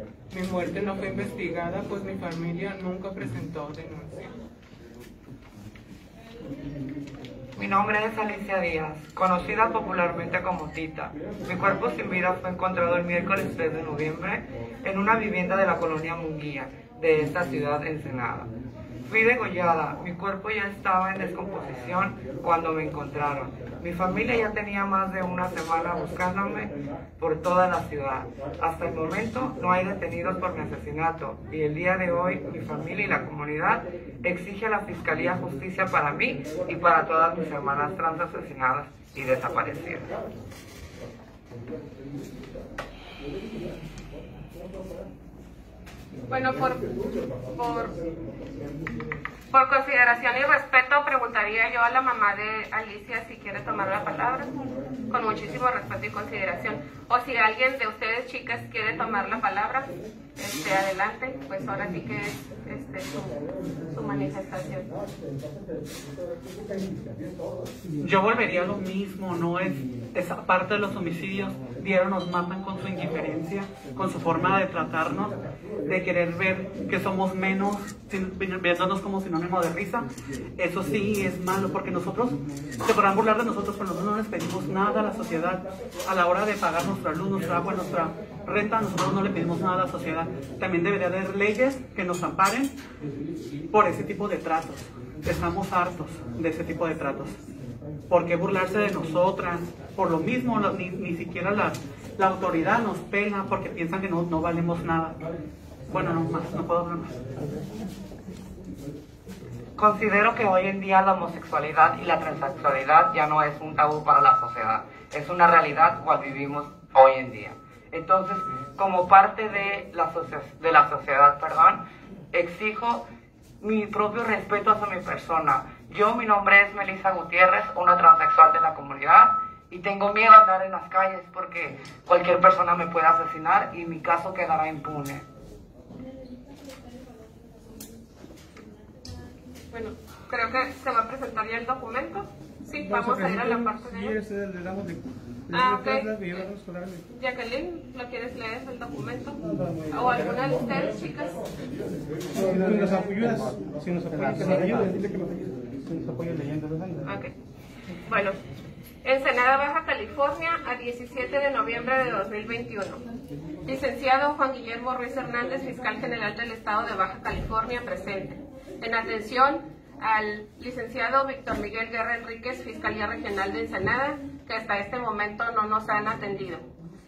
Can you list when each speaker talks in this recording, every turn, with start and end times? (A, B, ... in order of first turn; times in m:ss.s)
0:00.3-0:04.4 A
0:07.6-0:18.5 B
0:19.1-0:40.2 B
0:46.3-0:48.0 C
0:49.5-1:04.9 C
1:08.0-1:20.1 D
1:20.6-1:32.7 D
1:33.7-1:37.4 D
1:38.1-1:45.2 D
1:45.9-1:47.2 D
1:49.8-2:03.0 B
2:03.6-2:15.2 B
2:19.7-2:24.2 C
2:22.8-2:27.1 E
2:25.5-2:26.5 C
2:27.1-2:31.5 C
2:32.3-2:37.1 E
2:37.0-2:37.3 C
2:38.1-2:38.4 C
2:39.0-2:43.0 C
2:43.6-2:56.6 C